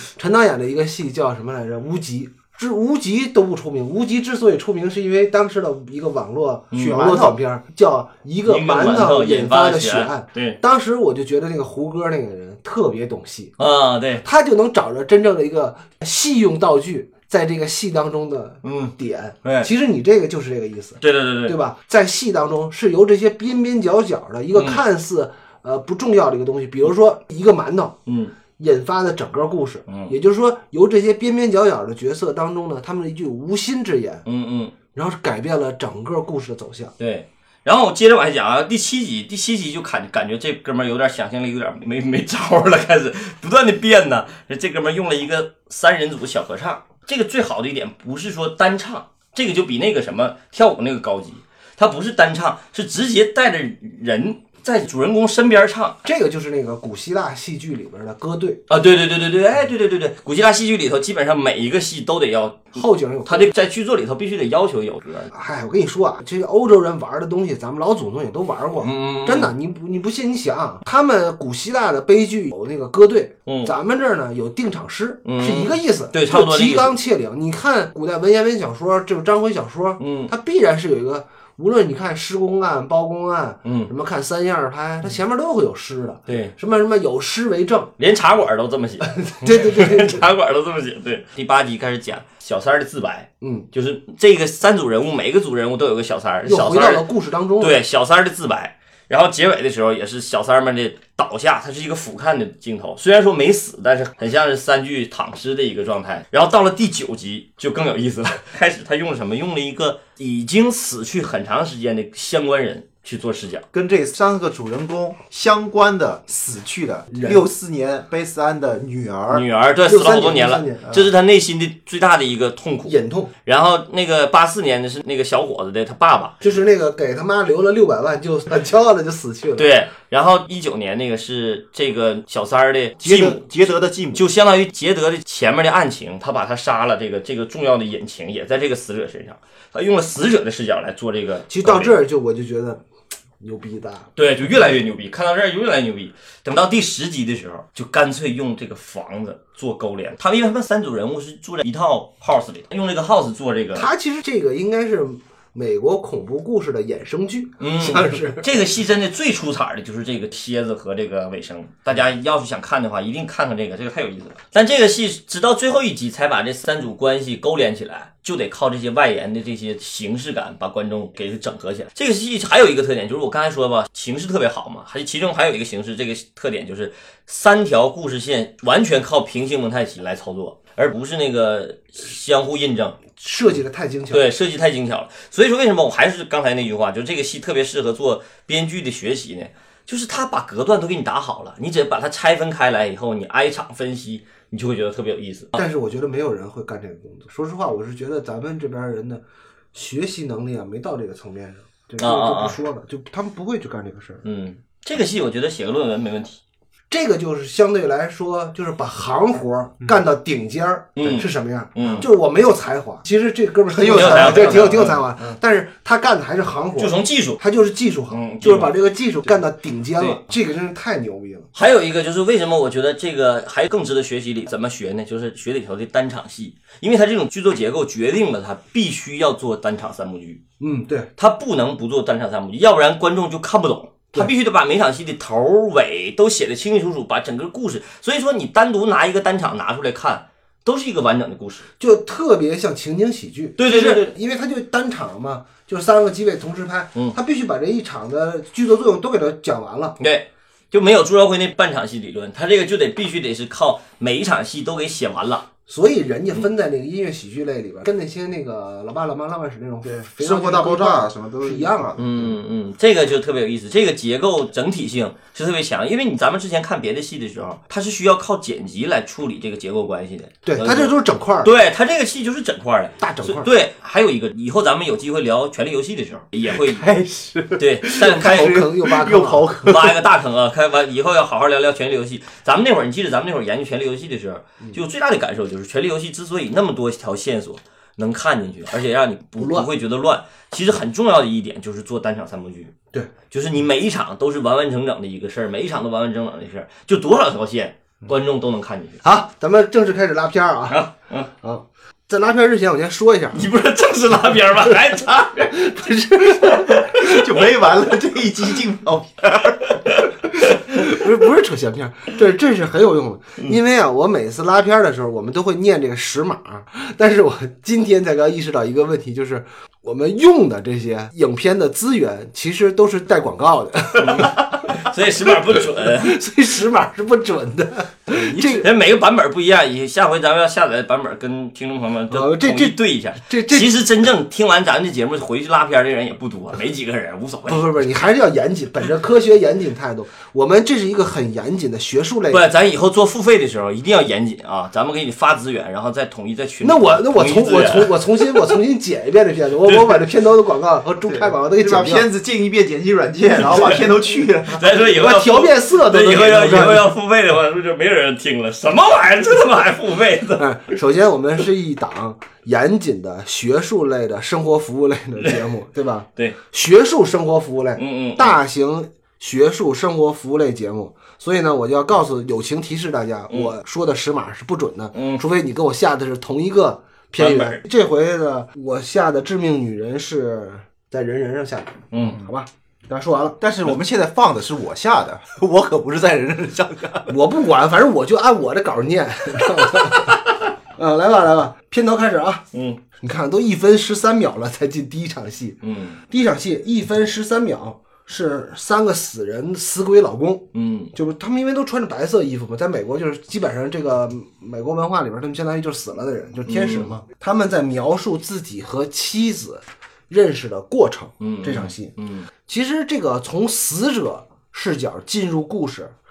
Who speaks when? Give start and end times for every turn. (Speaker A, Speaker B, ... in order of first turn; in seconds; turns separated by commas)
Speaker A: 0.1-13.5, Speaker B: 6.7-7.0, Speaker C: 6.7-7.3, Speaker B: 8.4-10.6, Speaker B: 13.6-14.2, Speaker A: 14.2-28.0, Speaker B: 18.6-19.7, Speaker B: 21.0-21.6, Speaker B: 24.5-24.8, Speaker B: 28.1-28.3, Speaker A: 28.6-34.2, Speaker B: 29.9-30.1, Speaker B: 34.2-34.7, Speaker A: 34.9-36.9, Speaker B: 37.0-56.0, Speaker A: 56.0-58.6, Speaker B: 58.7-65.3, Speaker A: 62.7-63.5, Speaker A: 65.3-87.9, Speaker B: 68.8-69.5, Speaker B: 73.5-73.7, Speaker B: 75.2-76.9, Speaker B: 80.0-80.3, Speaker B: 83.6-83.9, Speaker B: 86.3-86.5, Speaker B: 88.0-97.1, Speaker A: 89.1-90.2, Speaker A: 96.5-97.8, Speaker B: 97.6-113.7, Speaker C: 113.7-119.4, Speaker A: 117.1-117.4, Speaker B: 119.3-126.4, Speaker A: 119.8-120.8, Speaker A: 122.8-123.3, Speaker A: 126.4-129.7, Speaker B: 129.6-133.5, Speaker C: 133.0-134.3, Speaker B: 134.1-141.9, Speaker A: 141.5-142.8, Speaker A: 143.4-144.1, Speaker B: 144.2-153.9, Speaker A: 153.7-158.5, Speaker B: 157.6-183.0, Speaker A: 183.2-184.2, Speaker B: 184.1-195.6, Speaker A: 195.6-199.2, Speaker A: 199.7-204.2, Speaker B: 202.0-202.6, Speaker B: 204.2-206.4, Speaker A: 206.9-221.5, Speaker B: 211.0-212.1, Speaker B: 213.8-215.3, Speaker C: 213.9-214.9, Speaker B: 216.8-217.4, Speaker B: 218.1-218.7, Speaker B: 221.5-230.4, Speaker A: 230.6-231.1, Speaker B: 231.2-241.6, Speaker A: 241.8-250.0, Speaker B: 243.6-244.1, Speaker B: 250.0-255.4, Speaker A: 255.7-261.9, Speaker C: 259.8-262.4, Speaker B: 262.0-276.8, Speaker A: 270.4-271.5, Speaker A: 273.0-273.5, Speaker C: 276.4-280.0, Speaker B: 277.6-278.6, Speaker A: 278.2-279.5, Speaker B: 279.6-292.7, Speaker A: 289.4-289.7, Speaker B: 293.3-299.0, Speaker A: 299.0-300.8, Speaker B: 300.7-301.3, Speaker A: 301.4-303.4, Speaker B: 303.3-305.7, Speaker A: 305.4-306.9, Speaker B: 306.3-307.1, Speaker C: 306.9-309.8, Speaker A: 310.7-324.7, Speaker B: 324.0-326.2, Speaker A: 325.8-328.7, Speaker C: 328.1-328.6, Speaker B: 328.6-337.7, Speaker A: 332.1-333.7, Speaker A: 337.4-342.4, Speaker B: 342.3-348.6, Speaker A: 346.6-352.1, Speaker B: 349.7-350.0, Speaker C: 351.1-354.9, Speaker B: 353.5-353.8, Speaker B: 354.5-360.4, Speaker A: 354.9-356.9, Speaker C: 356.4-356.8, Speaker A: 360.4-383.4, Speaker B: 367.8-368.4, Speaker B: 374.9-375.2, Speaker B: 377.2-377.6, Speaker B: 381.9-382.2, Speaker C: 383.4-387.1, Speaker A: 387.1-390.2, Speaker A: 390.8-392.4, Speaker B: 392.5-392.8, Speaker A: 393.0-411.9, Speaker B: 395.6-396.0, Speaker B: 400.5-400.9, Speaker B: 406.5-406.9, Speaker B: 411.2-412.3, Speaker A: 412.5-415.9